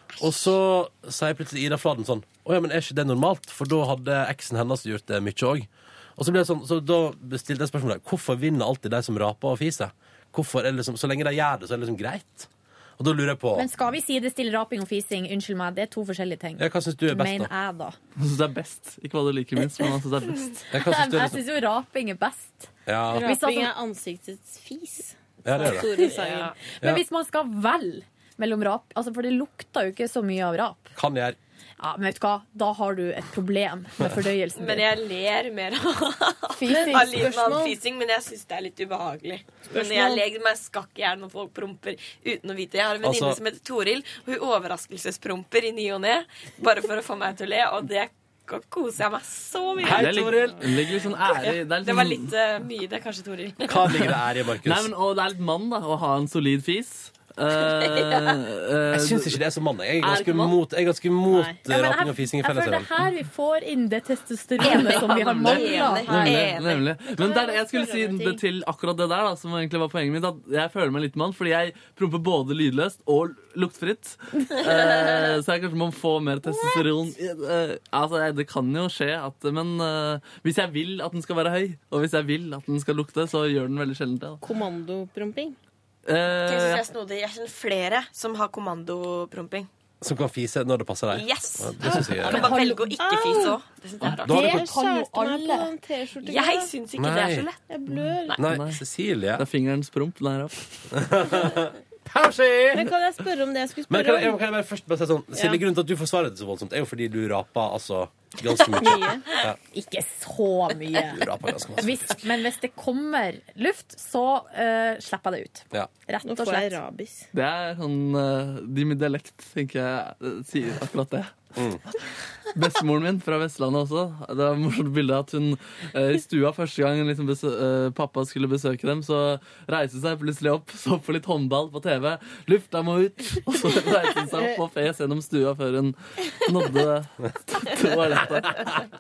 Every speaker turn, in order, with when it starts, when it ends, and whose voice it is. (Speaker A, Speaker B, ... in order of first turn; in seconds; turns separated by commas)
Speaker A: 0.2-13.7, Speaker B: 13.6-18.0, Speaker A: 16.6-17.5, Speaker C: 18.2-20.6, Speaker A: 20.7-21.4, Speaker B: 20.8-23.7, Speaker A: 22.9-23.2, Speaker D: 23.1-26.5, Speaker A: 25.4-25.9, Speaker B: 25.7-26.1, Speaker E: 26.0-26.5, Speaker B: 26.7-30.9, Speaker A: 30.9-31.4, Speaker B: 31.8-34.9, Speaker E: 34.6-50.2, Speaker B: 36.5-37.3, Speaker D: 36.7-37.8, Speaker D: 39.7-40.2, Speaker A: 43.0-43.4, Speaker A: 49.8-50.7, Speaker C: 49.9-52.3, Speaker E: 51.3-54.0, Speaker A: 53.7-54.9, Speaker C: 54.6-59.4, Speaker E: 57.9-58.3, Speaker A: 58.9-62.9, Speaker C: 60.0-60.5, Speaker D: 61.3-61.6, Speaker B: 61.7-66.1, Speaker E: 64.6-67.3, Speaker C: 65.2-84.4, Speaker D: 65.6-66.5, Speaker D: 67.2-68.4, Speaker D: 84.4-85.6, Speaker C: 86.1-86.8, Speaker E: 86.4-89.7, Speaker A: 90.0-92.5, Speaker E: 91.1-94.6, Speaker B: 92.3-93.0, Speaker D: 93.0-93.6, Speaker A: 94.2-94.7, Speaker B: 94.3-95.7, Speaker D: 94.3-96.8, Speaker E: 96.2-97.6, Speaker A: 97.0-97.5, Speaker D: 97.7-98.4, Speaker C: 97.9-98.8, Speaker A: 98.4-99.5, Speaker C: 99.4-100.7, Speaker A: 100.9-102.9, Speaker D: 102.7-104.4, Speaker A: 103.9-109.6, Speaker D: 105.3-105.6, Speaker D: 108.8-109.3, Speaker B: 109.7-111.2, Speaker A: 111.0-112.2, Speaker B: 111.8-116.8, Speaker D: 116.2-117.3, Speaker C: 117.3-121.4, Speaker C: 122.5-138.7